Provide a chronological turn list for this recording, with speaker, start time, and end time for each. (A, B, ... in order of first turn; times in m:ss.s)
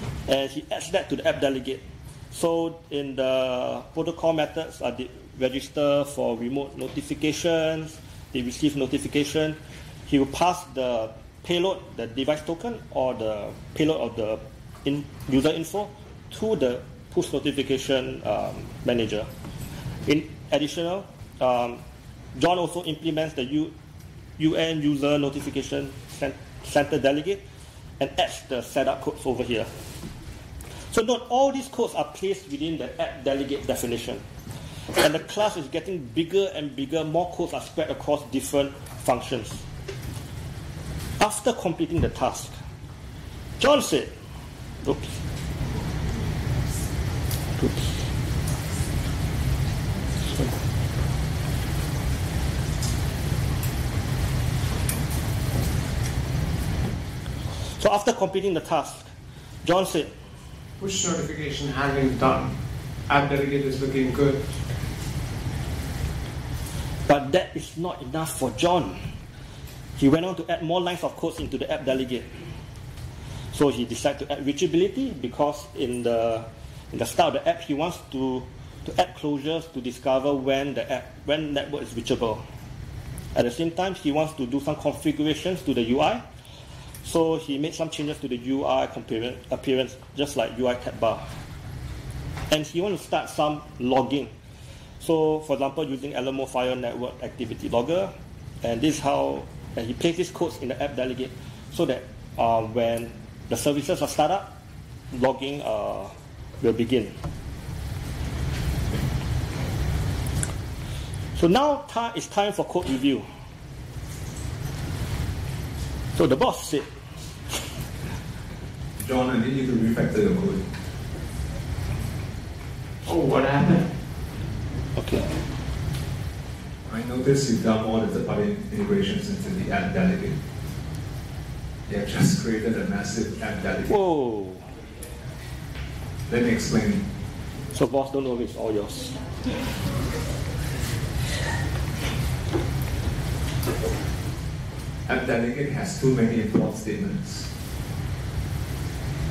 0:00.3-0:19.3 A
0:20.1-0:21.8 A
0:22.3-0:23.7 A
0:24.4-0:27.4 A
0:28.0-0:29.7 A
0:30.9-0:34.2 A
0:34.9-0:39.6 A
0:41.2-0:42.6 A
0:43.6-0:44.1 A
0:44.8-0:45.2 A
0:47.6-0:47.9 A
0:57.8-0:59.1 A
0:59.6-1:00.1 A
1:00.8-1:02.6 B
1:03.1-1:04.5 B
1:07.1-1:09.1 A
1:10.0-1:12.4 A
1:13.5-1:22.4 A
1:23.4-1:26.2 A
1:27.0-1:31.3 A
1:32.5-1:34.3 A
1:35.0-1:44.5 A
1:45.1-1:47.2 A
1:51.4-1:53.3 A
1:56.2-1:56.9 A
1:59.0-2:00.7 C
2:03.0-2:03.9 B
2:05.0-2:05.3 A
2:06.9-2:10.4 C
2:11.9-2:14.0 C
2:13.9-2:14.7 A
2:16.3-2:17.0 C
2:17.7-2:19.5 A
2:25.1-2:27.5 C